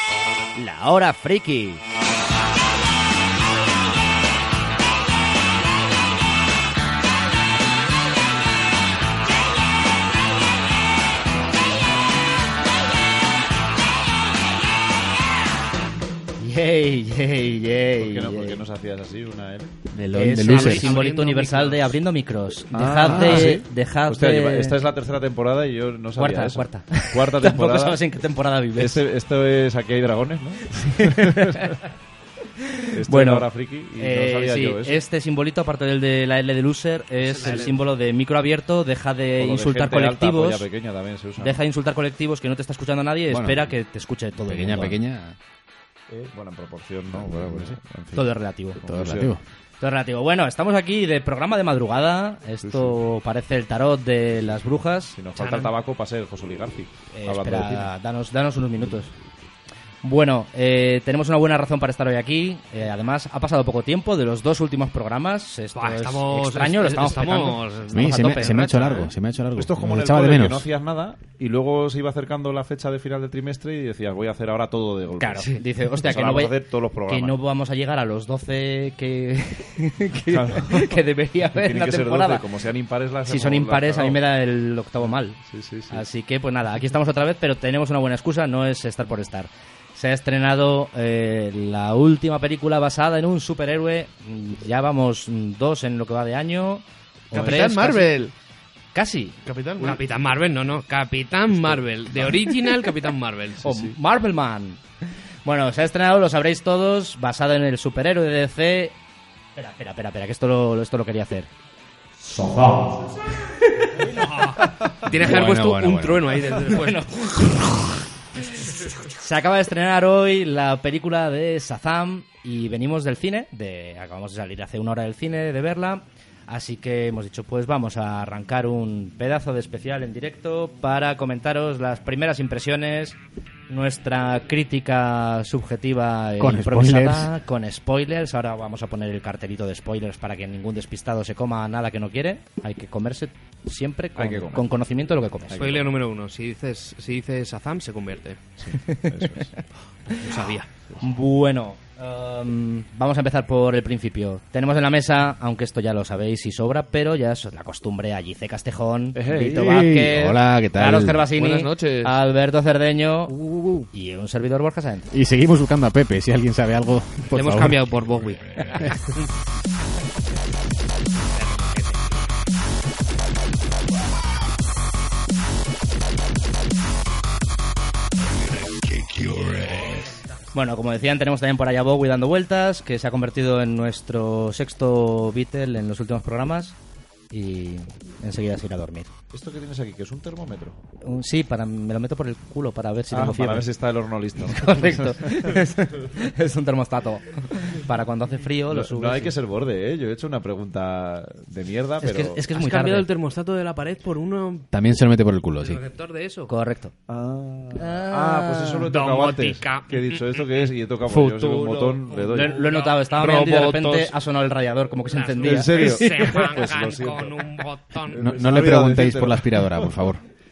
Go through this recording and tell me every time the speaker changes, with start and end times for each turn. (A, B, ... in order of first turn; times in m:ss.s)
0:00.5-0:01.8 A
0:16.4-0:18.6 A
0:18.0-0:19.8 B
0:19.9-0:20.9 C
0:20.1-0:24.8 A
0:20.4-0:22.0 D
0:22.7-0:28.0 B
0:23.0-0:23.6 C
0:26.1-0:29.0 A
0:28.8-0:31.8 B
0:30.8-0:31.8 A
0:32.6-0:40.7 A
0:32.9-0:35.0 B
0:37.2-0:37.8 D
0:39.4-0:41.6 B
0:41.4-0:45.0 A
0:43.3-0:43.8 C
0:44.4-0:45.4 C
0:46.1-0:49.4 B
0:47.2-0:47.8 C
0:48.1-0:48.8 A
0:48.8-0:49.4 C
0:49.8-0:55.2 A
0:52.6-0:52.9 B
0:55.1-0:57.9 B
0:55.3-0:55.7 D
0:57.1-0:59.1 A
1:00.0-1:09.0 A
1:05.7-1:09.1 D
1:07.9-1:10.7 C
1:09.5-1:17.4 B
1:15.2-1:22.4 A
1:20.3-1:24.2 B
1:23.2-1:38.2 A
1:25.4-1:26.0 B
1:37.3-1:38.3 E
1:38.9-1:39.4 A
1:39.4-1:40.0 E
1:39.8-1:43.9 D
1:43.6-1:48.9 A
1:49.6-1:51.5 A
1:52.2-1:54.4 A
1:54.0-1:57.3 D
1:55.0-1:56.6 C
1:56.6-1:58.0 A
1:58.7-2:13.2 A
2:13.7-2:25.7 A
2:16.4-2:17.3 C
2:24.2-2:24.7 B
2:25.4-2:25.9 B
2:25.6-2:28.4 D
2:28.6-2:29.6 B
2:28.8-2:29.6 A
2:30.1-2:30.7 D
2:31.0-2:43.4 A
2:39.1-2:39.8 B
2:39.3-2:41.2 C
2:41.3-2:42.1 E
2:43.4-2:43.9 C
2:43.9-2:45.1 A
2:45.1-2:47.8 C
2:47.3-2:49.3 D
2:48.7-2:49.0 C
2:51.2-2:52.1 D
2:59.7-3:00.2 D
3:00.5-3:06.8 A
3:07.3-3:09.1 A
3:09.3-3:10.8 B
3:11.0-3:13.7 A
3:13.1-3:15.6 B
3:14.4-3:19.4 A
3:18.7-3:22.4 B
3:22.0-3:23.1 A
3:22.5-3:24.7 D
3:24.7-3:25.8 C
3:25.6-3:26.5 D
3:26.5-3:26.9 A
3:27.1-3:32.6 B
3:27.7-3:28.9 A
3:28.9-3:30.5 D
3:31.1-3:32.0 E
3:32.0-3:33.1 D
3:32.3-3:36.6 A
3:33.1-3:34.1 E
3:35.0-3:38.5 D
3:35.4-3:37.4 B
3:38.1-3:40.1 B
3:38.2-3:40.2 C